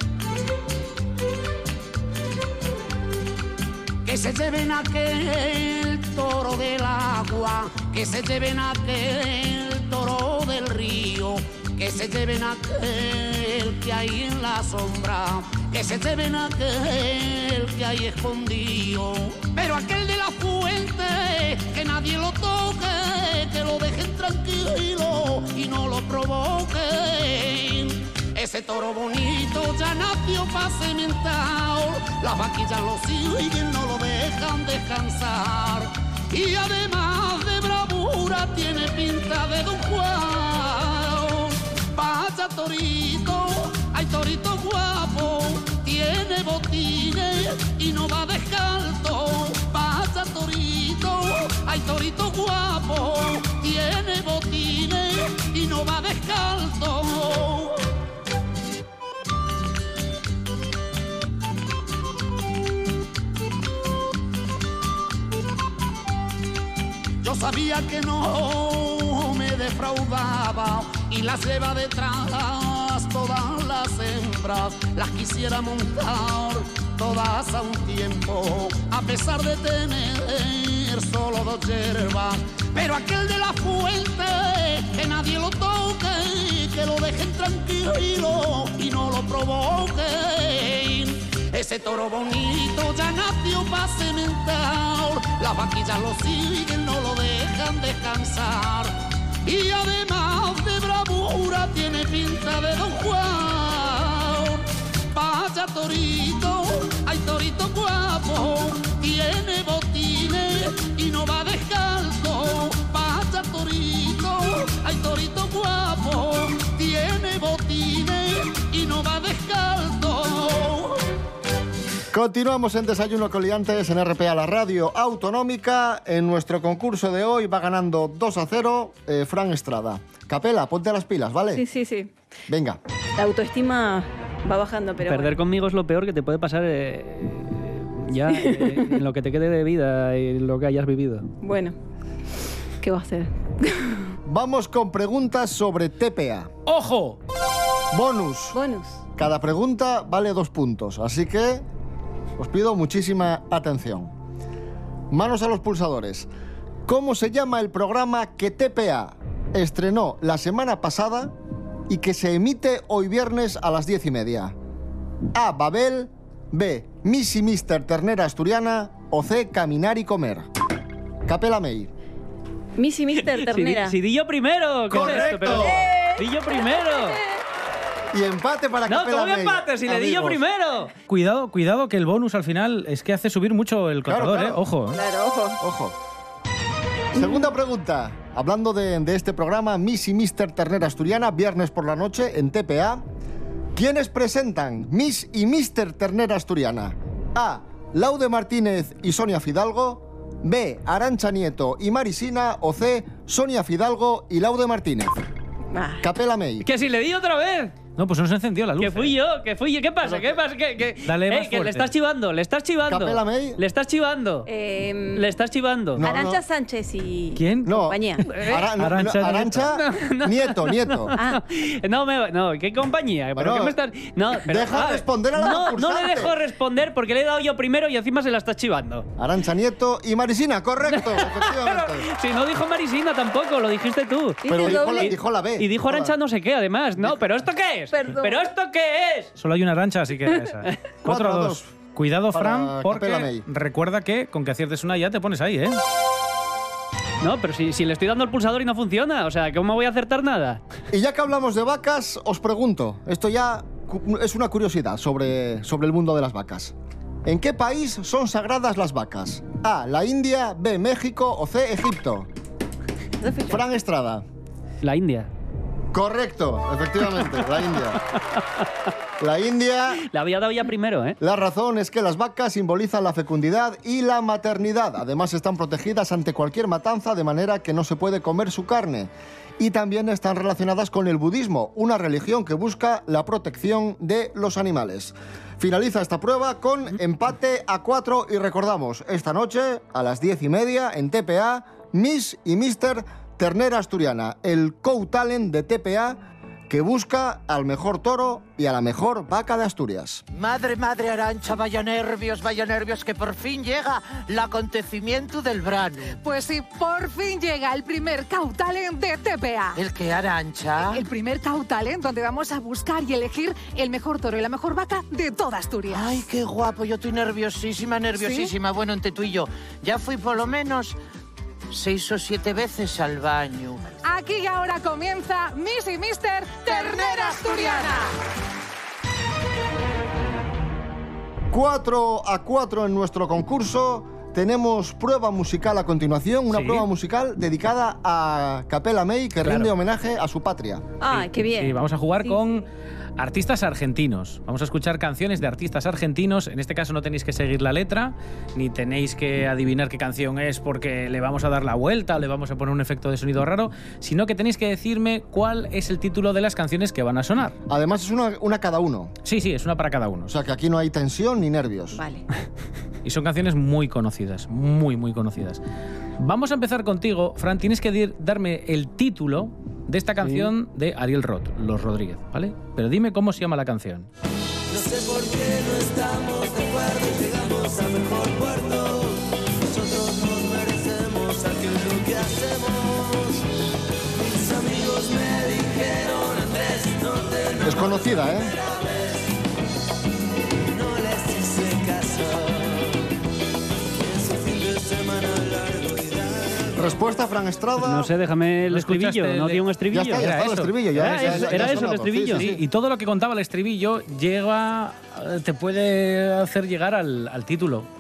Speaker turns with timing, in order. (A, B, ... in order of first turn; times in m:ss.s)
0:04.1-0:57.8 A
1:07.2-2:01.0 A
2:02.1-2:11.6 B
2:11.5-2:12.1 C
2:12.5-2:12.8 B
2:13.2-2:15.4 C
2:15.0-2:21.3 D
2:18.5-2:18.8 C
2:21.4-2:21.8 C
2:22.8-2:24.2 C
2:24.2-2:26.5 B
2:26.7-2:27.2 E
2:27.9-2:28.6 B
2:28.5-2:29.0 C
2:29.2-2:31.6 B
2:32.4-2:34.1 B
2:35.1-2:36.3 B
2:36.9-2:41.3 B
2:41.9-2:44.6 B
2:45.3-2:50.5 B
2:51.3-2:51.9 B
2:52.8-2:54.0 C
2:53.3-2:57.2 D
2:54.9-2:55.8 B
2:55.6-2:56.6 C
2:58.1-3:00.4 B
2:58.9-3:00.9 D
3:01.1-3:05.0 E
3:04.1-3:04.6 B
3:04.9-3:05.6 C
3:05.6-3:06.0 B
3:07.1-3:13.0 B
3:07.2-3:07.5 C
3:13.8-3:25.2 B
3:25.7-3:26.0 C
3:26.0-3:26.7 B
3:26.6-3:27.8 D
3:28.0-3:29.2 E
3:28.8-3:34.5 D
3:30.0-3:30.4 B
3:31.1-3:31.9 E
3:32.9-3:33.6 B
3:34.5-3:35.3 C
3:35.2-3:36.0 D
3:36.0-3:36.4 B
3:36.0-3:38.2 C
3:37.4-3:37.8 E
3:37.6-3:41.2 B
3:38.3-3:38.6 D
3:38.8-3:39.7 E
3:39.7-3:49.1 D
3:41.2-3:41.4 C
3:43.4-3:43.8 B
3:44.4-3:46.4 B
3:49.2-3:52.1 B
3:50.9-3:59.3 D
3:54.4-3:55.1 C
3:54.5-3:56.2 B
3:57.9-3:58.4 C
3:59.4-4:05.8 E
4:01.0-4:01.7 B
4:02.3-4:03.4 B
4:07.2-4:10.6 D
4:10.9-4:16.7 B
4:17.2-4:22.3 B
4:23.2-4:23.6 C
4:23.5-4:24.2 B
4:24.8-4:25.3 D
4:25.9-4:28.0 B
4:29.2-4:30.0 B
4:30.1-4:31.2 D
4:31.2-5:00.2 B
5:00.3-5:06.2 F
5:06.2-5:09.8 G
5:09.8-5:11.0 F
5:10.8-5:16.2 G
5:15.9-5:21.0 F
5:18.2-5:18.5 G
5:21.7-5:24.0 F
5:24.0-5:28.1 G
5:31.5-5:40.8 B
5:36.5-5:36.9 E
5:39.4-5:39.7 E
5:41.0-5:42.4 C
5:41.1-5:42.7 E
5:43.2-5:57.6 E
5:57.7-5:59.2 B
5:59.2-6:00.3 E
6:00.3-6:02.0 B
6:01.9-6:02.2 C
6:03.0-6:05.6 E
6:06.2-6:14.1 E
6:10.2-6:10.5 D
6:14.7-6:23.4 H
6:24.2-6:29.2 H
6:27.6-6:28.5 B
6:30.7-6:33.0 H
6:34.0-6:36.9 H
6:36.8-6:38.1 B
6:37.8-6:40.4 D
6:38.7-6:47.9 E
6:39.9-6:42.6 B
6:40.9-6:42.5 D